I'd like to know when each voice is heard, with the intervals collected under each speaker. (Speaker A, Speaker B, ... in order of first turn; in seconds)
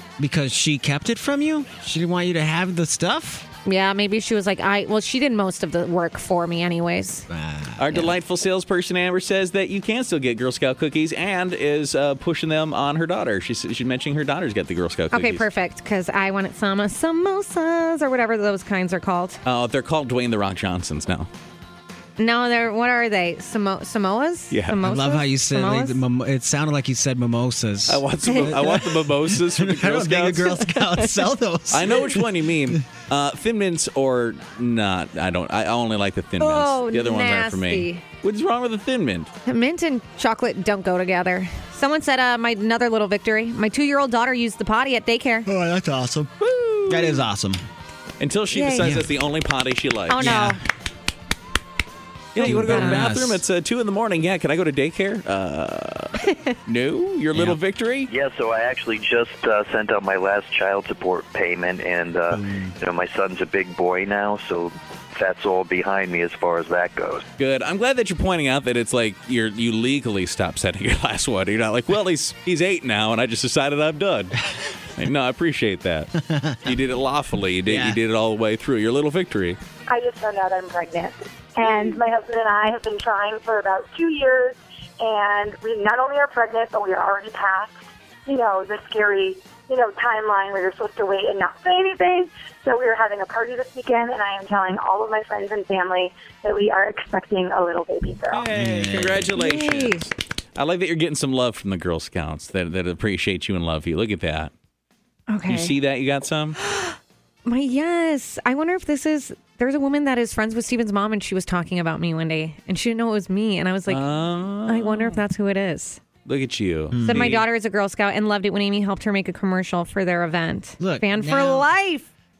Speaker A: 0.2-3.5, 7.3-8.2, 24.8-32.8, 45.5-46.3, 46.9-47.6, 48.8-49.1, 50.2-50.6, 52.4-53.4, 62.3-62.7, 76.2-76.7, 77.7-78.0, 98.5-99.3, 116.9-117.4, 120.8-121.7
Speaker B: 3.6-7.3, 15.1-19.4, 22.2-26.0, 30.8-31.1, 36.4-38.0, 39.5-45.5, 48.5-49.0, 50.1-50.6, 52.5-53.1, 99.3-100.0, 105.3-105.8, 106.6-114.1, 114.6-116.0, 117.0-122.0
Speaker C: 7.8-15.4, 19.4-21.3, 24.5-24.8, 27.9-30.6, 31.7-39.3, 46.4-47.2, 48.2-50.3, 52.3-58.1, 67.4-74.4, 75.0-76.1, 76.6-79.6, 98.3-104.5, 105.5-106.6, 113.9-115.2, 116.2-117.4
Speaker D: 58.1-67.2
Speaker E: 79.9-98.5